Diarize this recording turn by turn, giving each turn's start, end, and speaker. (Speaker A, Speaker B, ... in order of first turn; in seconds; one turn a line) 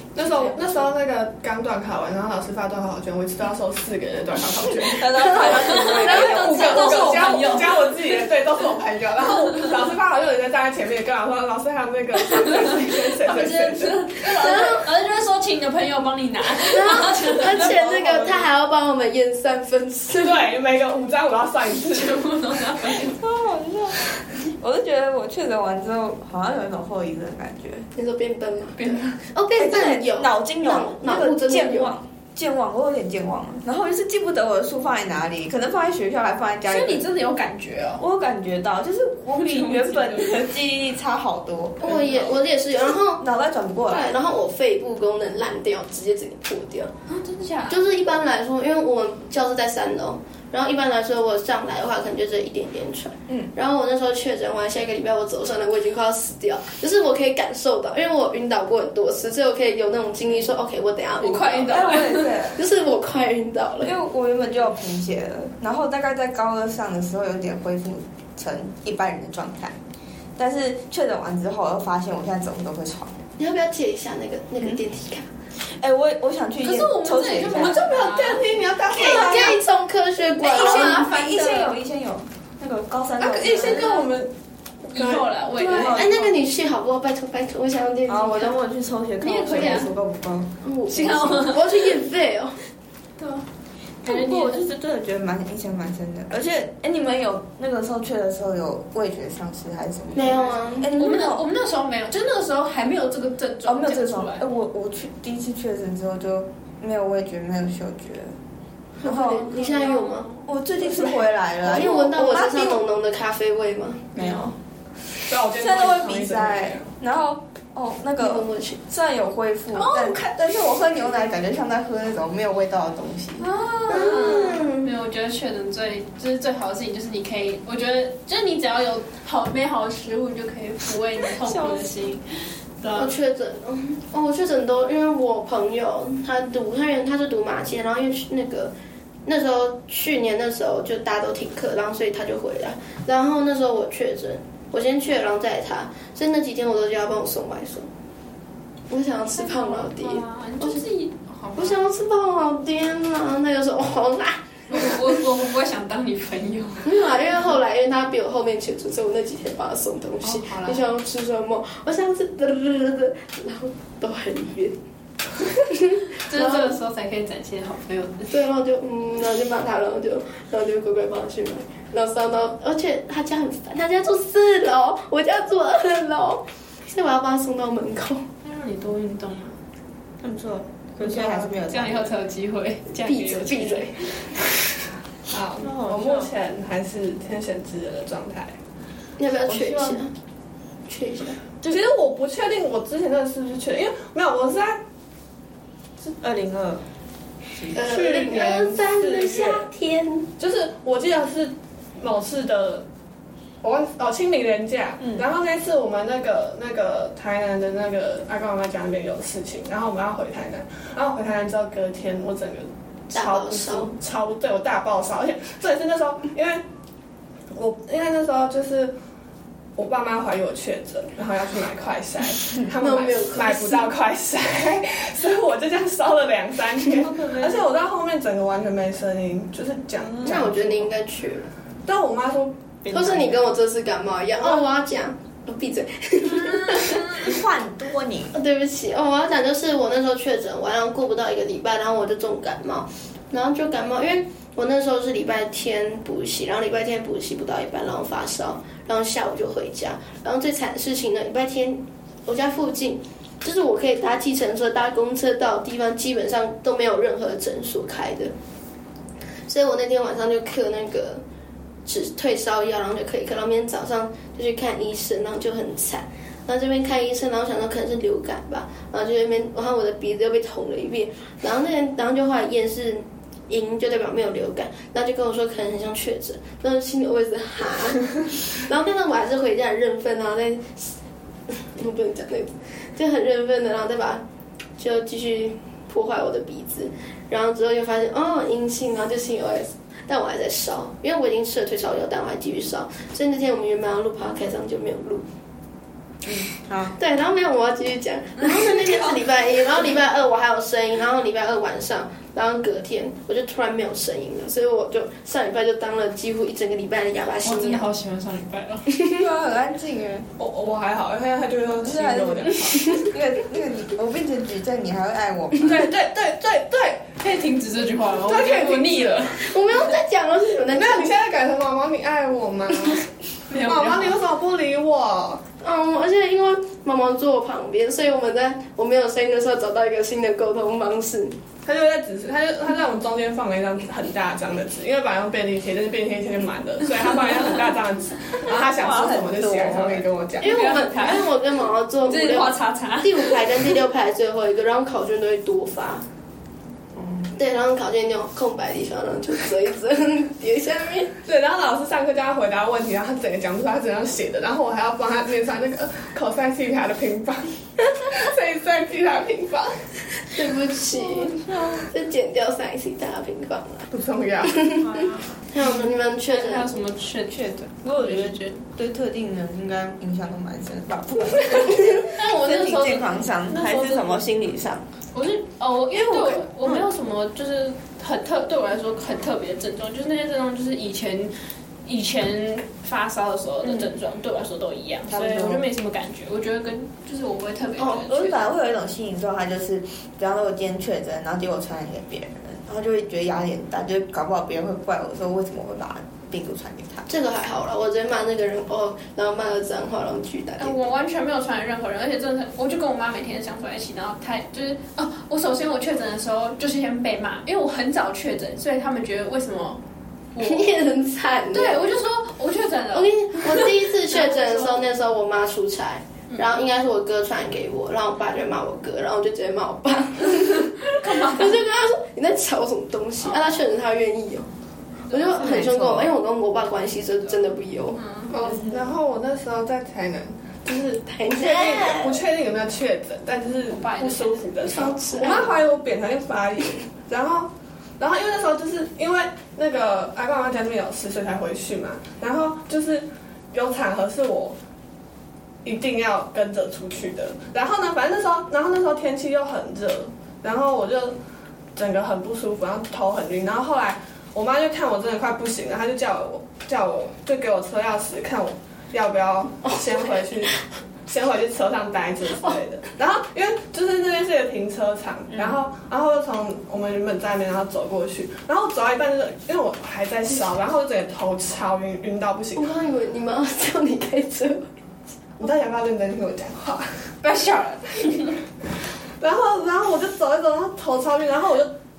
Speaker A: 0.1-14.0
Speaker B: 4.8-7.3
Speaker C: 5.2-6.5
Speaker D: 5.5-8.1
Speaker D: 12.5-17.7
Speaker C: 14.2-14.9
Speaker C: 16.6-20.5
Speaker B: 17.7-18.4
Speaker A: 20.1-22.2
Speaker D: 21.8-23.2
Speaker B: 23.0-27.9
Speaker C: 27.9-31.9
Speaker D: 28.8-29.2
Speaker B: 29.6-37.1
Speaker D: 36.6-38.0
Speaker B: 38.0-44.1
Speaker D: 39.3-40.4
Speaker C: 41.8-43.2
Speaker C: 43.9-46.9
Speaker D: 47.1-47.8
Speaker C: 47.7-63.9
Speaker D: 61.2-62.5
Speaker B: 61.7-62.6
Speaker B: 63.8-69.8
Speaker B: 70.4-73.2
Speaker C: 73.4-75.3
Speaker B: 75.6-77.8
Speaker D: 76.6-79.5
Speaker A: 77.7-79.5
Speaker B: 79.0-79.5
Speaker C: 79.0-81.1
Speaker D: 80.4-81.8
Speaker B: 80.5-83.8
Speaker A: 83.2-84.3
Speaker D: 83.5-84.1
Speaker A: 84.8-85.3
Speaker D: 84.9-86.1
Speaker C: 85.6-88.6
Speaker B: 85.6-86.4
Speaker B: 88.1-90.5
Speaker D: 89.2-89.9
Speaker C: 90.6-92.6
Speaker D: 90.9-91.7
Speaker D: 93.2-93.5
Speaker B: 94.0-101.5
Speaker D: 94.0-94.6
Speaker C: 100.1-100.9
Speaker D: 100.9-104.5
Speaker B: 103.7-108.4
Speaker C: 109.0-110.3
Speaker B: 109.0-109.7
Speaker D: 109.5-110.4
Speaker B: 110.5-112.8
Speaker A: 110.8-111.2
Speaker C: 111.6-114.1
Speaker D: 114.2-114.5
Speaker B: 114.2-114.5
Speaker A: 115.3-116.9
Speaker B: 115.5-123.5
Speaker C: 118.2-118.8
Speaker D: 119.7-120.5
Speaker D: 123.4-133.1
Speaker C: 123.9-124.9
Speaker B: 131.4-132.0
Speaker C: 132.9-138.7
Speaker C: 139.3-147.9
Speaker C: 148.9-150.8
Speaker D: 149.3-151.8
Speaker C: 151.6-155.1
Speaker D: 154.7-156.9
Speaker C: 156.8-164.8
Speaker D: 160.2-160.8
Speaker C: 165.4-166.7
Speaker D: 166.0-168.4
Speaker C: 168.3-178.3
Speaker D: 178.4-179.6
Speaker B: 180.2-182.2
Speaker A: 181.0-181.5
Speaker D: 181.7-184.3
Speaker C: 183.0-184.0
Speaker A: 185.3-188.6
Speaker B: 185.6-186.3
Speaker C: 189.2-190.1
Speaker B: 189.5-190.0
Speaker C: 190.9-191.4
Speaker A: 191.7-194.8
Speaker B: 196.2-196.8
Speaker B: 197.5-197.9
Speaker C: 197.7-200.3
Speaker A: 197.9-199.7
Speaker A: 200.4-202.8
Speaker A: 203.6-216.6
Speaker B: 205.0-205.3
Speaker C: 213.1-213.9
Speaker A: 217.5-218.9
Speaker A: 219.8-230.9
Speaker C: 222.7-223.9
Speaker B: 226.9-227.7
Speaker B: 230.1-230.5
Speaker C: 230.2-231.5
Speaker A: 231.9-232.6
Speaker B: 232.8-233.5
Speaker C: 232.9-237.3
Speaker A: 234.4-234.7
Speaker D: 236.5-237.1
Speaker B: 237.1-238.3
Speaker C: 238.3-258.3
Speaker C: 259.5-261.2
Speaker C: 261.9-281.0
Speaker C: 281.5-284.2
Speaker C: 284.8-295.2
Speaker B: 296.2-297.0
Speaker C: 297.0-307.9
Speaker D: 298.4-299.1
Speaker D: 307.4-308.9
Speaker C: 309.0-309.2
Speaker B: 309.1-310.3
Speaker A: 310.4-312.9
Speaker B: 311.8-315.8
Speaker A: 315.6-317.1
Speaker D: 317.2-319.4
Speaker A: 318.1-319.3
Speaker C: 319.3-321.1
Speaker A: 320.7-325.4
Speaker D: 323.5-324.1
Speaker C: 325.6-331.4
Speaker A: 331.6-340.7
Speaker B: 338.4-340.1
Speaker D: 340.4-341.3
Speaker C: 340.4-346.0
Speaker D: 342.1-343.8
Speaker B: 347.0-347.3
Speaker C: 347.3-351.1
Speaker A: 351.2-359.7
Speaker C: 360.3-363.9
Speaker B: 360.9-361.9
Speaker A: 363.9-364.7
Speaker C: 364.5-364.9
Speaker B: 364.8-365.4
Speaker C: 365.5-366.8
Speaker D: 365.6-368.6
Speaker B: 367.3-374.9
Speaker D: 372.0-374.3
Speaker D: 375.1-381.3
Speaker B: 376.3-376.9
Speaker D: 381.9-388.5
Speaker B: 385.1-385.6
Speaker B: 387.8-397.1
Speaker C: 397.1-400.8
Speaker D: 400.6-409.8
Speaker D: 410.4-410.8
Speaker C: 410.4-411.9
Speaker D: 411.5-414.9
Speaker C: 412.9-424.5
Speaker D: 416.3-416.6
Speaker D: 421.0-421.6
Speaker D: 423.2-423.6
Speaker D: 425.1-425.5
Speaker C: 425.1-428.0
Speaker B: 425.4-426.1
Speaker D: 427.3-428.3
Speaker A: 428.3-444.6
Speaker C: 430.9-432.2
Speaker D: 433.7-435.5
Speaker C: 434.6-435.6
Speaker A: 445.6-451.2
Speaker A: 451.8-472.7
Speaker C: 472.6-474.6
Speaker A: 475.4-477.1
Speaker D: 477.2-478.4
Speaker A: 479.2-481.7